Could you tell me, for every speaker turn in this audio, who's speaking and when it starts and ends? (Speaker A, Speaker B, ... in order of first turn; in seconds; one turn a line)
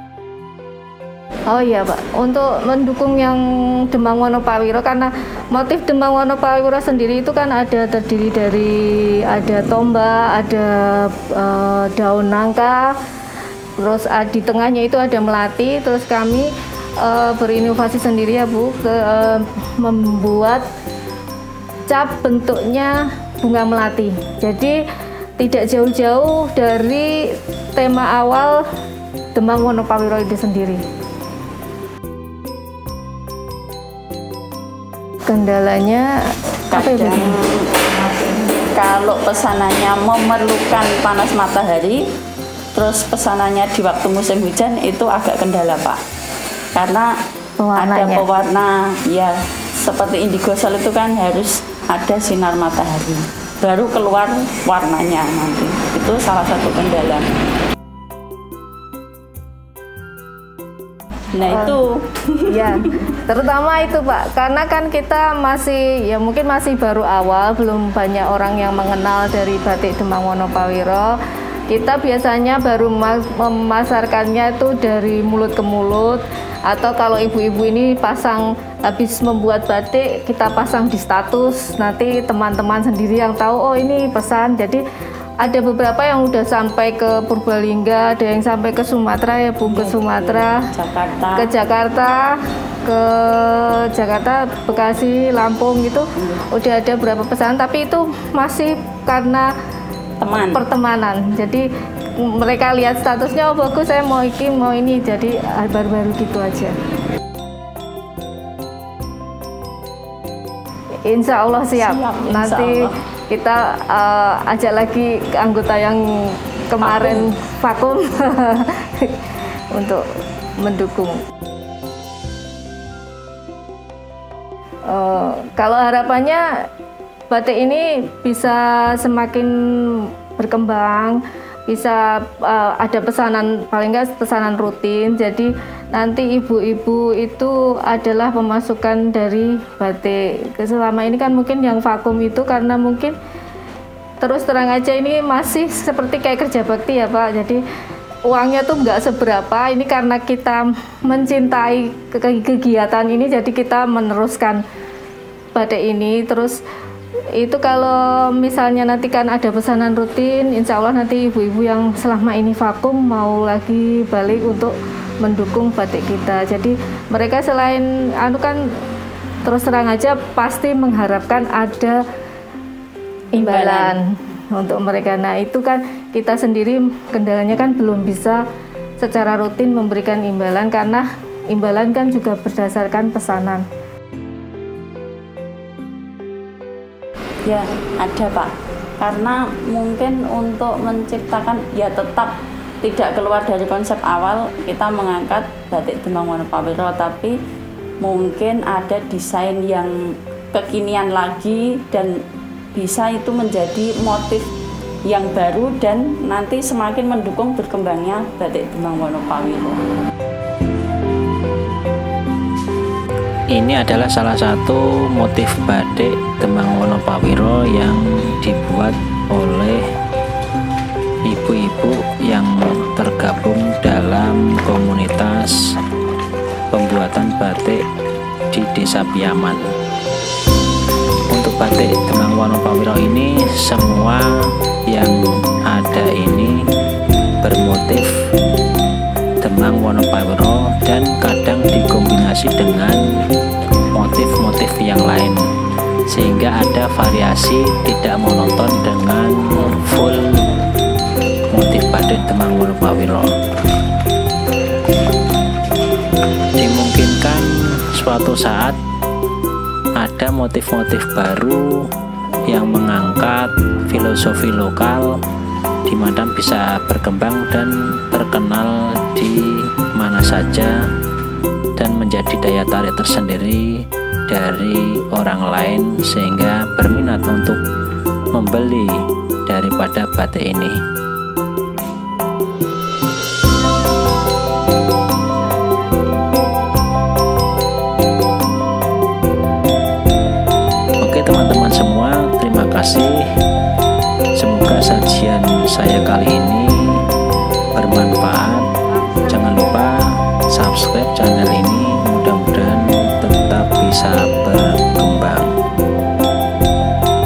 Speaker A: 1.5-12.9
Speaker A: 13.8-20.6
Speaker A: 21.9-24.8
Speaker A: 25.4-28.6
Speaker A: 29.3-30.8
Speaker A: 35.3-36.1
Speaker B: 36.7-42.0
Speaker A: 36.7-37.4
Speaker B: 42.7-46.0
Speaker B: 46.7-47.1
Speaker A: 47.6-48.3
Speaker B: 47.8-57.3
Speaker B: 61.3-63.0
Speaker A: 61.5-61.8
Speaker A: 62.5-71.1
Speaker A: 71.7-84.8
Speaker A: 85.4-90.6
Speaker B: 89.7-91.5
Speaker A: 91.3-99.5
Speaker B: 96.2-96.4
Speaker B: 100.2-100.6
Speaker A: 100.5-101.7
Speaker A: 102.2-106.7
Speaker A: 111.1-119.1
Speaker B: 111.7-113.0
Speaker B: 116.8-117.3
Speaker A: 119.7-120.0
Speaker A: 120.6-121.2
Speaker A: 124.9-126.4
Speaker A: 127.3-143.2
Speaker A: 144.2-147.6
Speaker A: 148.3-154.6
Speaker A: 155.5-156.6
Speaker A: 157.3-168.6
Speaker A: 169.4-172.0
Speaker A: 173.3-178.4
Speaker B: 173.3-174.0
Speaker A: 179.0-183.6
Speaker B: 187.4-197.3
Speaker B: 198.0-199.9
Speaker B: 200.5-202.2
Speaker B: 202.7-204.5
Speaker B: 205.1-209.8
Speaker C: 213.5-219.8
Speaker C: 221.3-225.5
Speaker C: 226.7-227.8
Speaker C: 228.5-229.7
Speaker C: 231.3-234.3
Speaker C: 234.9-236.5
Speaker C: 237.4-238.1
Speaker C: 239.4-243.0
Speaker C: 243.9-245.4
Speaker C: 246.1-250.2
Speaker C: 251.5-253.3
Speaker C: 256.6-258.8
Speaker C: 260.0-261.8
Speaker C: 262.5-265.1
Speaker C: 265.9-269.4
Speaker C: 269.9-270.7
Speaker C: 271.8-273.7
Speaker C: 274.3-277.6
Speaker C: 278.4-278.9
Speaker C: 279.5-280.8
Speaker C: 291.0-293.2
Speaker C: 294.4-297.0
Speaker C: 297.7-298.6
Speaker C: 299.2-305.5